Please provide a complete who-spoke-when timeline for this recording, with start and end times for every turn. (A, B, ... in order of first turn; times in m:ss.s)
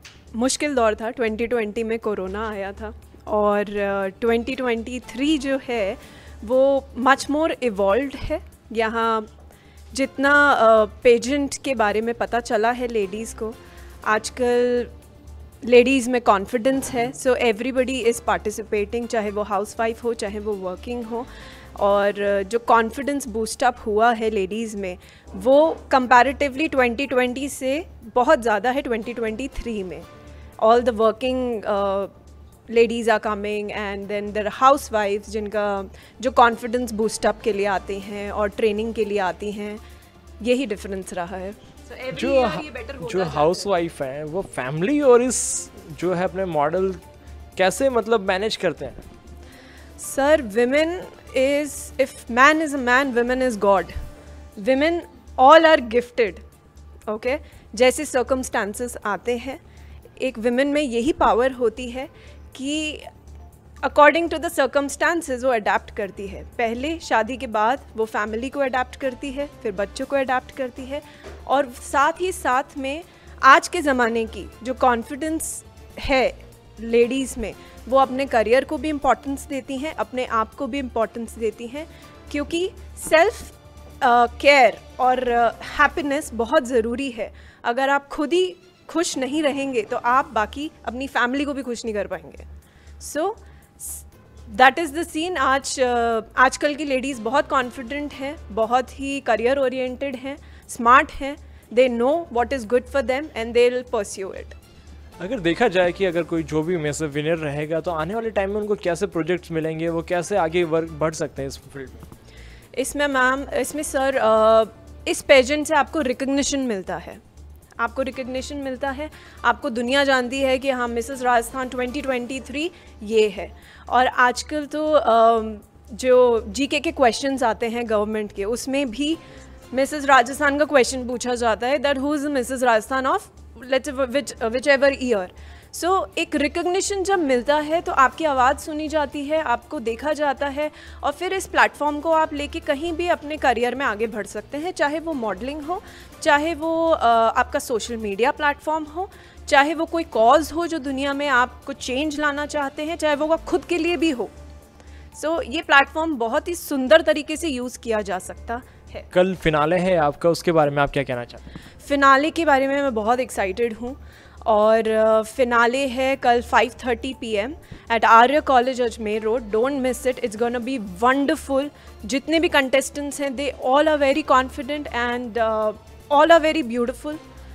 0:00.3-0:09.3 A
0:09.9-0:14.9 A
0:15.6-0:30.1 A
0:30.6-0:32.1 A
0:32.7-0:39.8 A
0:40.4-0:43.7 A
0:42.1-0:47.0 B
0:47.6-0:49.1 B
0:50.0-0:53.9 A
0:54.6-0:56.4 A
0:57.1-0:59.6 A
1:00.2-1:03.1 A
1:03.8-1:32.4 A
1:33.0-1:44.6 A
1:45.2-1:52.0 B
1:52.7-1:57.2 A
1:57.8-2:09.2 A
2:09.7-2:34.3 A
2:35.1-2:39.1 A
2:39.1-2:41.4 B
2:41.8-2:57.2 A